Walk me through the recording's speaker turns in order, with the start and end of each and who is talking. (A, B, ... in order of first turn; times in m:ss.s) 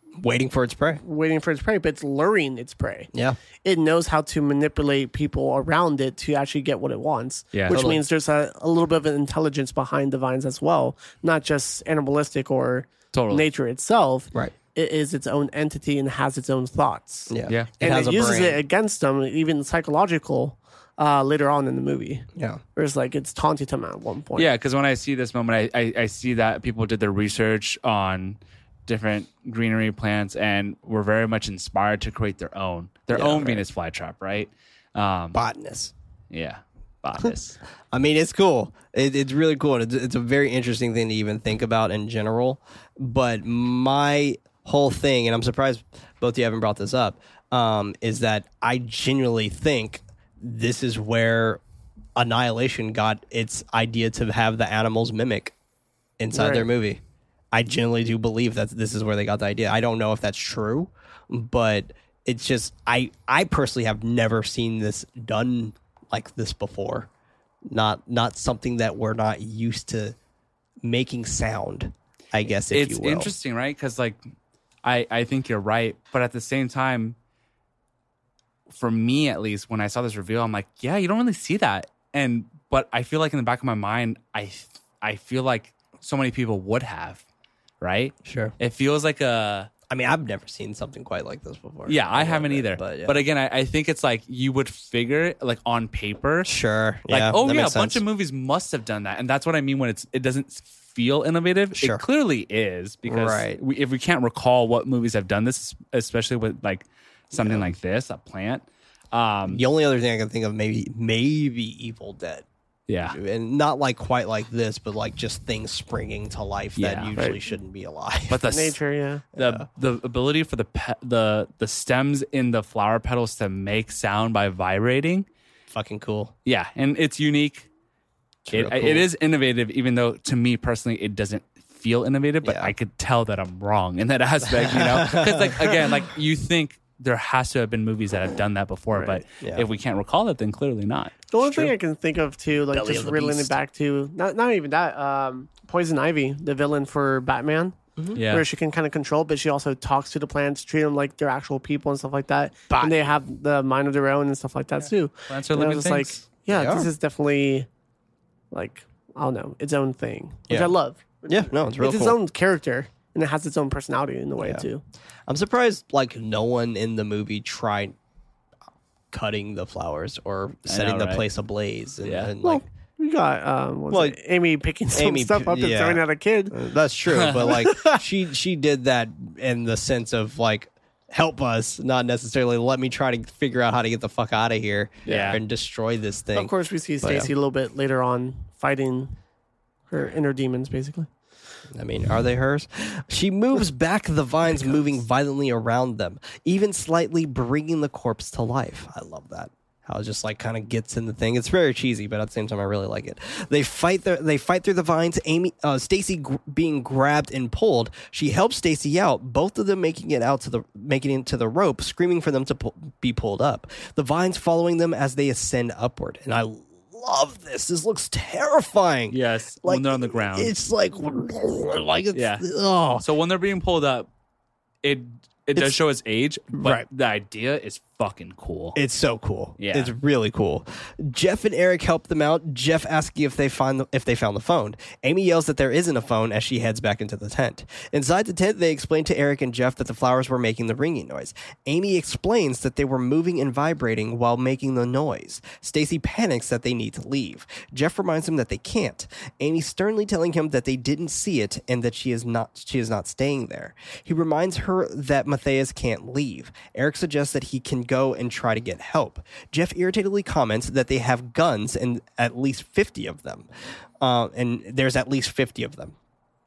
0:00.2-0:01.0 A
0:01.0-0:03.1 B
0:03.1-0:03.4 A
0:03.6-0:24.5 B
0:07.5-0:07.8 C
0:07.7-0:08.0 A
0:13.1-0:13.5 C
0:17.3-0:18.6 A
0:22.4-0:22.6 A
0:24.4-0:35.4 C
0:33.1-0:33.6 A
0:35.3-0:35.9 A
0:36.3-0:37.6 C
0:37.9-0:51.6 A
0:52.2-0:55.5 A
0:56.2-0:57.0 A
0:56.3-0:56.7 B
0:57.5-1:07.1 A
1:07.7-1:10.2 A
1:10.8-1:13.3 A
1:12.7-1:14.2 C
1:14.8-1:17.2 C
1:18.7-1:27.2 C
1:27.8-1:29.7 C
1:28.2-1:28.5 A
1:29.9-1:33.2 A
1:31.9-1:36.5 C
1:36.5-1:38.0 A
1:37.1-1:49.6 C
1:41.8-1:42.0 A
1:43.1-1:43.6 A
1:47.4-1:47.7 A
1:49.5-1:52.5 A
1:52.9-1:53.2 C
1:53.1-1:58.4 A
1:56.8-1:57.1 C
1:57.2-1:57.4 B
1:58.3-1:58.8 C
1:58.5-1:59.3 B
1:59.4-1:59.7 A
1:59.4-2:05.3 C
2:05.7-2:06.3 A
2:06.4-2:07.7 C
2:08.4-2:09.1 A
2:08.5-2:21.2 C
2:12.4-2:12.7 A
2:14.4-2:15.9 A
2:19.0-2:19.2 B
2:19.4-2:19.7 A
2:21.3-2:27.8 B
2:21.4-2:21.7 A
2:22.7-2:23.6 A
2:28.2-2:28.5 C
2:28.3-2:37.7 B
2:32.7-2:33.0 A
2:35.3-2:36.2 C
2:36.5-2:36.9 A
2:38.5-2:44.8 B
2:40.5-2:40.7 A
2:41.3-2:42.2 A
2:44.4-2:44.7 A
2:45.3-2:48.0 A
2:49.1-2:52.6 A
2:50.7-2:51.2 C
2:52.0-2:52.3 C
2:52.4-2:56.6 B
2:53.9-2:54.2 A
2:54.9-3:07.3 A
2:57.1-2:57.4 C
2:57.5-2:58.0 B
3:05.1-3:05.4 C
3:05.1-3:05.3 B
3:06.4-3:09.2 B
3:09.9-3:11.1 B
3:11.7-3:43.0 A
3:14.6-3:14.8 B
3:39.1-3:40.5 C
3:42.1-3:42.4 C
3:43.0-3:44.1 C
3:44.8-3:48.8 C
3:46.5-3:46.9 A
3:48.8-4:23.5 A
3:49.6-3:49.9 C
4:24.0-4:26.0 A